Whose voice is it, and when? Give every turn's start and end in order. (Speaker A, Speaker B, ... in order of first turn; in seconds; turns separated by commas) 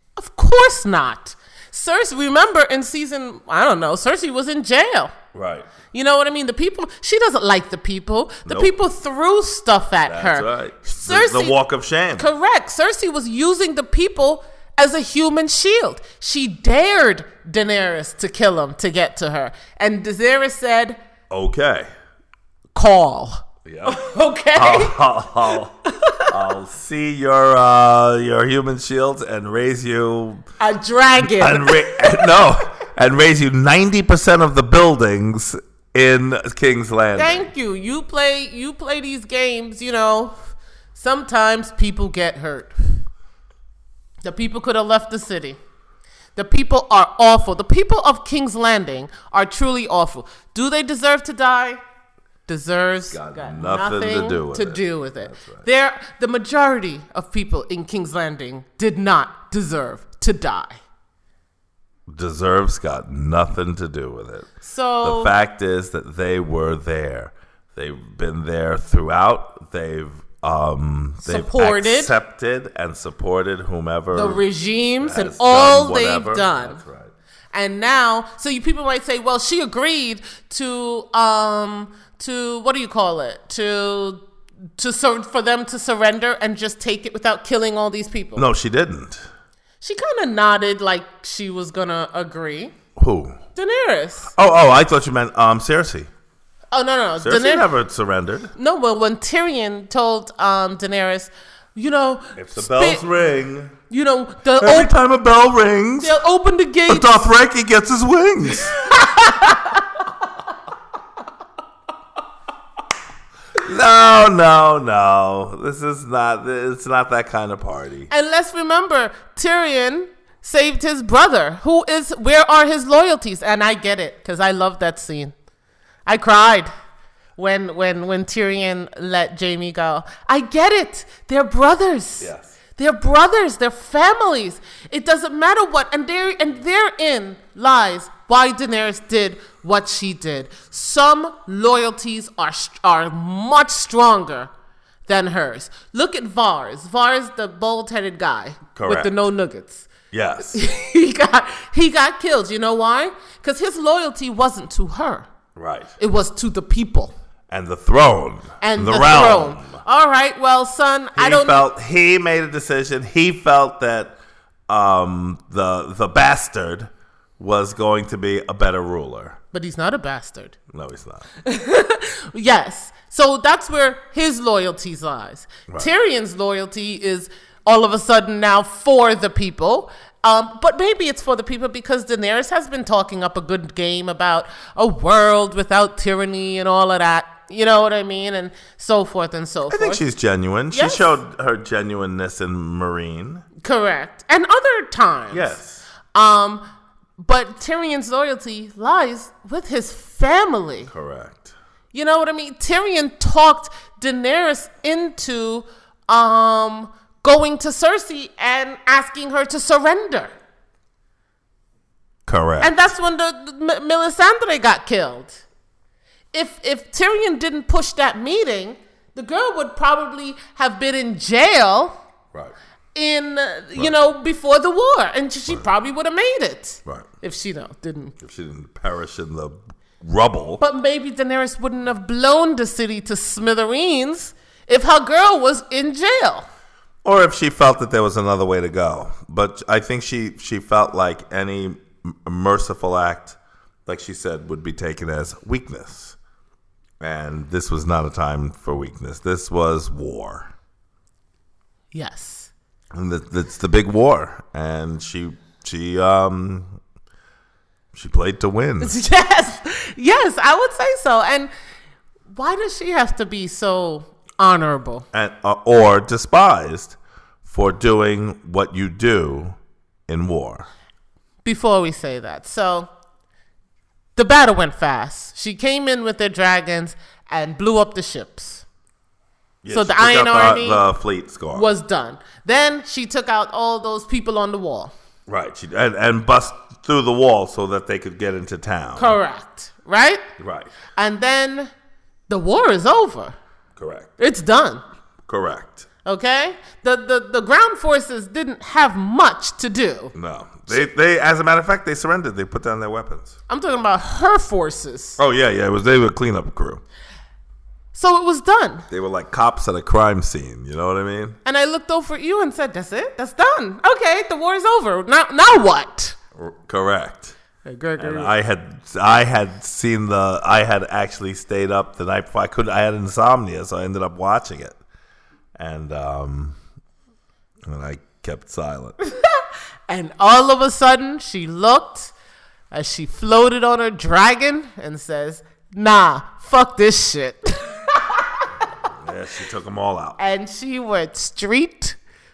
Speaker A: 0.2-5.1, Speaker B: 5.3-5.7, Speaker A: 5.9-10.5, Speaker B: 8.5-8.7, Speaker B: 10.1-12.3, Speaker A: 11.0-11.6, Speaker A: 12.2-21.0, Speaker B: 21.3-21.9, Speaker A: 22.8-25.0, Speaker B: 23.6-24.0, Speaker B: 24.6-30.5, Speaker A: 25.9-26.3, Speaker A: 30.6-32.4, Speaker B: 31.2-37.5, Speaker A: 37.2-40.4, Speaker A: 41.0-42.8, Speaker A: 44.2-45.6, Speaker A: 46.4-51.8, Speaker A: 52.5-60.8, Speaker B: 53.1-55.7, Speaker B: 62.1-64.5, Speaker A: 64.6-65.3, Speaker B: 65.0-74.4, Speaker A: 71.2-72.1, Speaker A: 74.1-76.8, Speaker B: 75.0-77.1, Speaker A: 77.5-84.2, Speaker A: 84.8-88.5, Speaker B: 88.4-89.2, Speaker A: 89.8-92.7, Speaker B: 93.0-93.4, Speaker A: 93.6-94.3, Speaker B: 94.3-96.1, Speaker A: 96.7-97.7, Speaker B: 97.2-98.5, Speaker A: 98.6-103.0, Speaker B: 102.4-103.8, Speaker A: 103.9-104.9, Speaker B: 104.6-106.2, Speaker A: 106.0-107.3, Speaker B: 106.9-108.8, Speaker A: 108.6-110.0, Speaker B: 113.6-118.1, Speaker A: 118.1-125.3, Speaker A: 126.1-126.7, Speaker A: 127.4-144.5, Speaker B: 132.2-132.5, Speaker A: 145.1-149.9, Speaker B: 148.8-149.2, Speaker B: 150.1-150.6, Speaker A: 150.5-155.3, Speaker B: 155.6-155.9, Speaker A: 156.0-157.1, Speaker B: 157.5-159.8, Speaker A: 158.6-161.7, Speaker B: 161.2-164.2, Speaker B: 164.7-169.4, Speaker A: 169.5-170.6, Speaker B: 170.7-171.3, Speaker A: 171.4-190.1, Speaker B: 189.7-193.4, Speaker A: 190.7-191.1, Speaker A: 193.6-195.6, Speaker B: 195.3-195.8, Speaker A: 196.1-196.7, Speaker A: 197.2-200.9, Speaker B: 200.9-201.5, Speaker A: 201.9-210.3, Speaker B: 212.3-212.7, Speaker A: 212.6-215.4, Speaker A: 216.3-222.0, Speaker A: 222.9-228.2, Speaker B: 228.2-230.6, Speaker A: 230.6-236.5, Speaker B: 237.1-246.2, Speaker B: 247.0-250.5, Speaker A: 251.9-252.5, Speaker B: 252.9-256.8, Speaker B: 257.9-259.0, Speaker A: 258.8-261.5, Speaker A: 262.3-265.1, Speaker B: 265.1-269.6, Speaker B: 270.1-270.7, Speaker A: 271.4-272.9, Speaker A: 274.2-278.6, Speaker B: 279.6-281.8, Speaker A: 279.7-280.8, Speaker A: 281.5-284.9, Speaker B: 285.3-289.2, Speaker A: 289.0-290.2, Speaker B: 290.4-290.7, Speaker A: 290.9-291.7, Speaker A: 292.3-293.4, Speaker B: 293.8-294.1, Speaker A: 294.2-294.8, Speaker B: 295.3-295.9, Speaker A: 296.1-300.1, Speaker B: 300.1-303.4, Speaker A: 303.5-305.2, Speaker B: 305.2-306.8, Speaker A: 307.9-308.9, Speaker B: 308.9-311.4, Speaker A: 311.4-316.2, Speaker B: 316.4-317.4, Speaker A: 317.7-318.3, Speaker B: 318.0-324.8, Speaker B: 325.6-326.6, Speaker B: 327.7-328.9, Speaker A: 329.9-332.1, Speaker A: 332.7-338.5, Speaker B: 339.0-340.2, Speaker A: 340.2-342.0